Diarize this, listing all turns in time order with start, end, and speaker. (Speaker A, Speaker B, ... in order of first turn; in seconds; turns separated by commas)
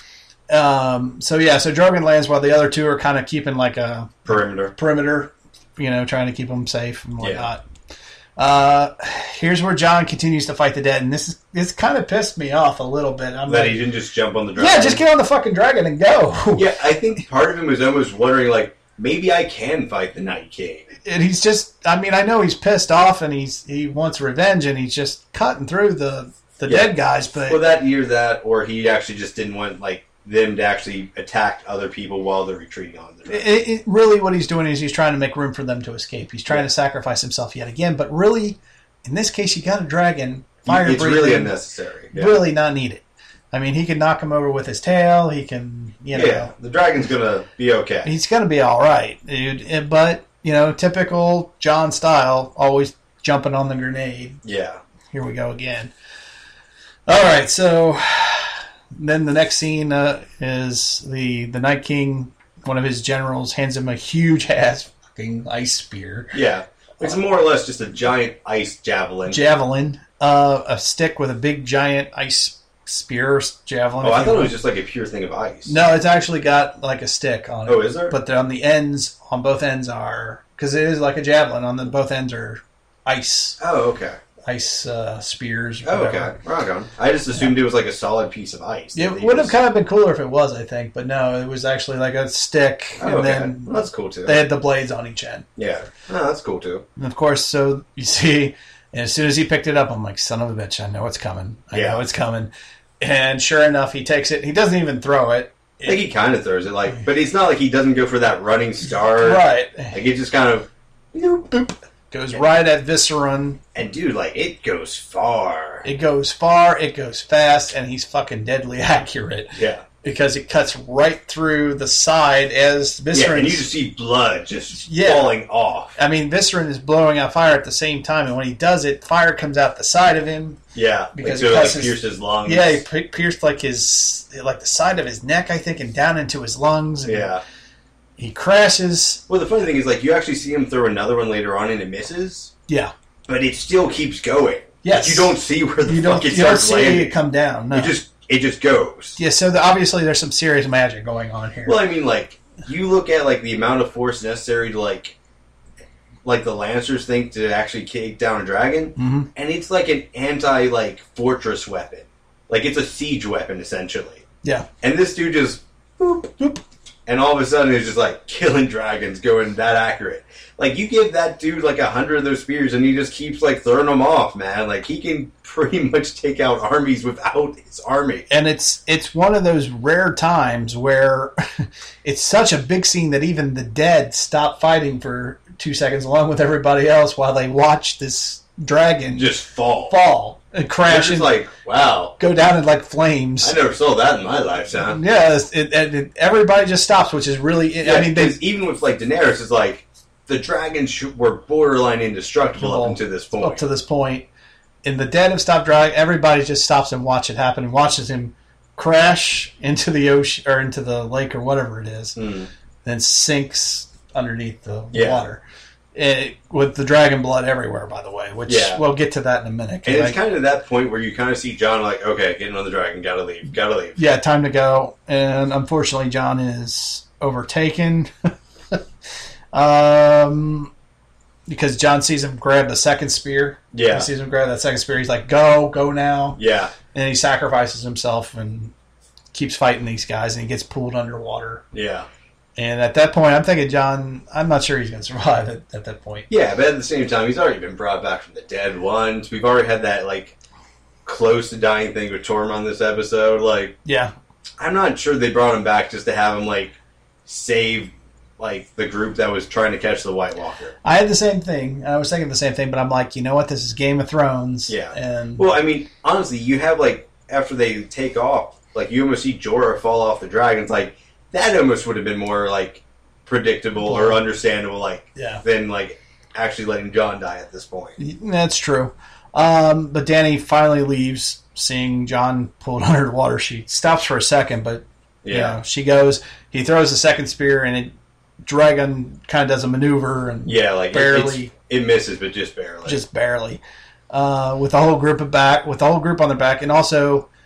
Speaker A: 0.5-7.6, Speaker B: 4.2-4.7, Speaker B: 7.2-7.5, Speaker A: 8.4-13.8, Speaker B: 13.5-15.0, Speaker A: 14.6-16.6, Speaker B: 16.6-20.9, Speaker A: 21.0-27.6, Speaker B: 26.6-33.5, Speaker A: 33.3-41.5, Speaker B: 40.6-42.4, Speaker A: 42.1-46.5, Speaker B: 46.1-48.1, Speaker A: 48.0-54.4, Speaker B: 54.4-54.8, Speaker A: 55.1-55.9, Speaker A: 57.1-66.3, Speaker B: 66.3-69.4, Speaker A: 69.3-74.5, Speaker B: 74.0-75.7, Speaker A: 75.7-83.6, Speaker B: 77.7-78.1, Speaker B: 83.6-84.2, Speaker A: 84.5-86.3, Speaker B: 85.8-89.5, Speaker A: 88.9-95.5, Speaker B: 93.0-94.4, Speaker B: 95.6-96.8, Speaker A: 97.0-102.5, Speaker B: 101.7-102.0, Speaker A: 103.0-106.0, Speaker B: 105.8-111.5, Speaker A: 109.2-110.0, Speaker A: 111.5-113.6, Speaker B: 113.7-115.8, Speaker A: 115.8-119.5, Speaker B: 119.5-119.8, Speaker A: 120.0-123.7, Speaker B: 123.1-126.0, Speaker A: 124.8-125.4, Speaker A: 126.0-130.6, Speaker B: 130.7-132.8, Speaker A: 131.2-137.3, Speaker B: 137.1-137.4, Speaker A: 138.2-139.2, Speaker B: 139.3-142.5, Speaker A: 142.7-142.9, Speaker B: 143.3-147.1, Speaker A: 144.8-147.9, Speaker B: 147.7-149.2, Speaker A: 149.2-151.8, Speaker B: 151.7-155.1, Speaker B: 156.2-164.2, Speaker A: 159.0-159.3, Speaker B: 164.8-166.4, Speaker B: 167.1-178.3, Speaker A: 178.3-181.3, Speaker A: 182.0-189.3, Speaker B: 189.1-189.9, Speaker A: 189.9-191.3, Speaker B: 190.9-192.2, Speaker A: 192.2-193.5, Speaker B: 193.4-195.0, Speaker A: 194.9-198.4, Speaker B: 197.8-203.6, Speaker A: 202.6-204.3, Speaker A: 204.8-212.2, Speaker B: 212.2-212.5, Speaker A: 212.8-215.4, Speaker B: 214.9-215.2, Speaker A: 215.9-220.2, Speaker B: 218.5-218.8, Speaker B: 219.8-224.0, Speaker A: 223.9-228.1, Speaker A: 229.5-230.7, Speaker A: 231.5-236.4, Speaker B: 233.7-234.1, Speaker B: 236.4-236.7, Speaker A: 236.9-238.7, Speaker A: 239.3-241.6, Speaker B: 241.7-242.1, Speaker A: 242.6-246.3, Speaker B: 246.3-250.3, Speaker B: 251.0-253.8, Speaker A: 253.8-254.1, Speaker B: 254.6-260.8, Speaker A: 260.8-265.4, Speaker B: 264.7-278.0, Speaker A: 273.8-274.2, Speaker A: 275.1-275.4, Speaker A: 278.0-287.9, Speaker B: 285.2-285.6, Speaker A: 288.4-291.5, Speaker B: 290.4-293.0, Speaker A: 292.8-297.3